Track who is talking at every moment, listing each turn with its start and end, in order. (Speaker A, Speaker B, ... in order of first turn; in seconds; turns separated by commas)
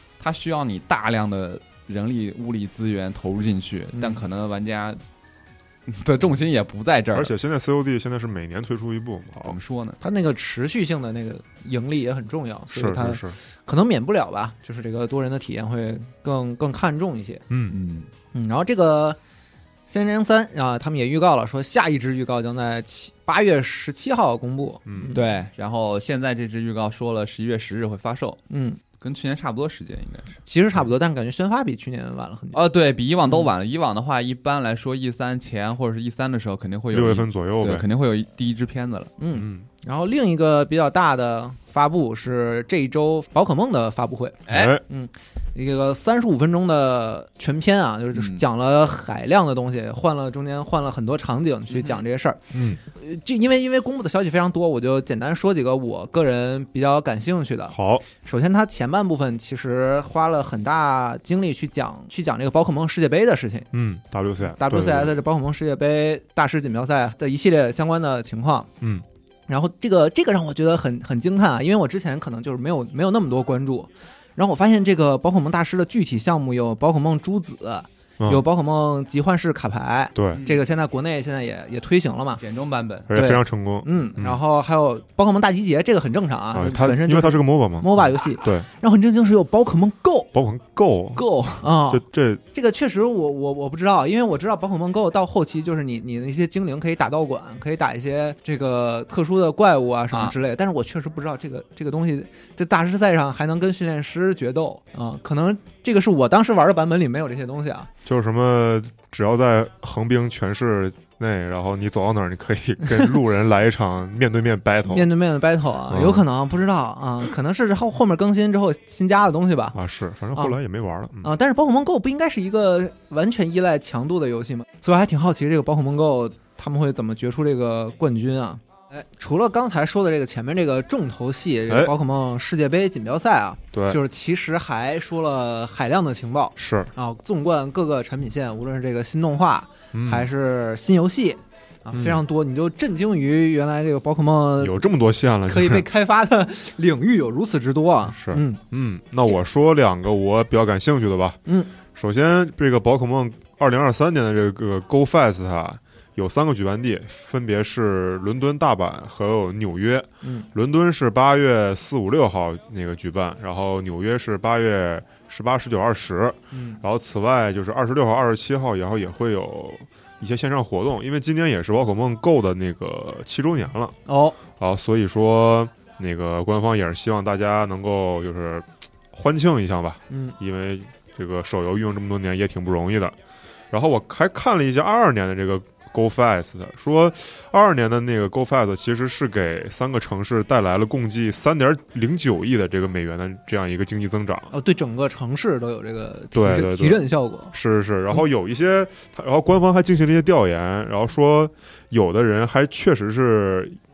Speaker A: 0.2-5.0, Speaker B: 3.9-4.2, Speaker A: 5.9-7.3, Speaker C: 7.1-9.6, Speaker A: 9.4-10.0, Speaker B: 10.0-17.4, Speaker C: 12.7-13.4, Speaker C: 17.5-17.8, Speaker A: 17.7-18.1, Speaker B: 18.3-19.2, Speaker B: 19.9-25.2, Speaker C: 24.9-25.1, Speaker A: 25.1-28.4, Speaker B: 28.5-28.8, Speaker A: 29.0-30.4, Speaker B: 30.4-32.6, Speaker A: 32.5-39.1, Speaker C: 36.9-37.9, Speaker B: 39.2-63.7, Speaker C: 39.3-39.7, Speaker A: 44.5-44.8, Speaker C: 44.5-44.8, Speaker A: 48.1-48.4, Speaker A: 51.7-52.0, Speaker C: 52.5-52.8, Speaker C: 57.7-58.0, Speaker C: 63.7-65.2, Speaker B: 64.4-68.7, Speaker B: 69.5-82.4, Speaker C: 80.1-80.4, Speaker A: 80.3-80.6, Speaker A: 82.4-83.1, Speaker C: 83.1-84.4, Speaker B: 83.1-90.3, Speaker C: 86.5-88.7, Speaker C: 90.3-91.2, Speaker A: 91.1-91.7, Speaker B: 91.6-107.9, Speaker C: 91.9-92.4, Speaker C: 108.0-115.1, Speaker B: 114.9-119.8, Speaker C: 115.9-116.2, Speaker C: 119.7-121.3, Speaker B: 121.2-144.9, Speaker C: 133.7-134.0, Speaker C: 136.6-136.9, Speaker C: 139.9-140.3, Speaker C: 141.9-142.2, Speaker C: 144.6-145.8, Speaker B: 145.5-148.6, Speaker C: 148.0-151.4, Speaker B: 151.4-151.7, Speaker C: 151.9-173.9, Speaker B: 160.2-160.5, Speaker B: 166.5-166.8, Speaker B: 174.1-174.4, Speaker C: 174.5-183.1, Speaker B: 180.1-180.4, Speaker C: 183.7-194.5, Speaker B: 194.5-197.5, Speaker C: 196.3-203.8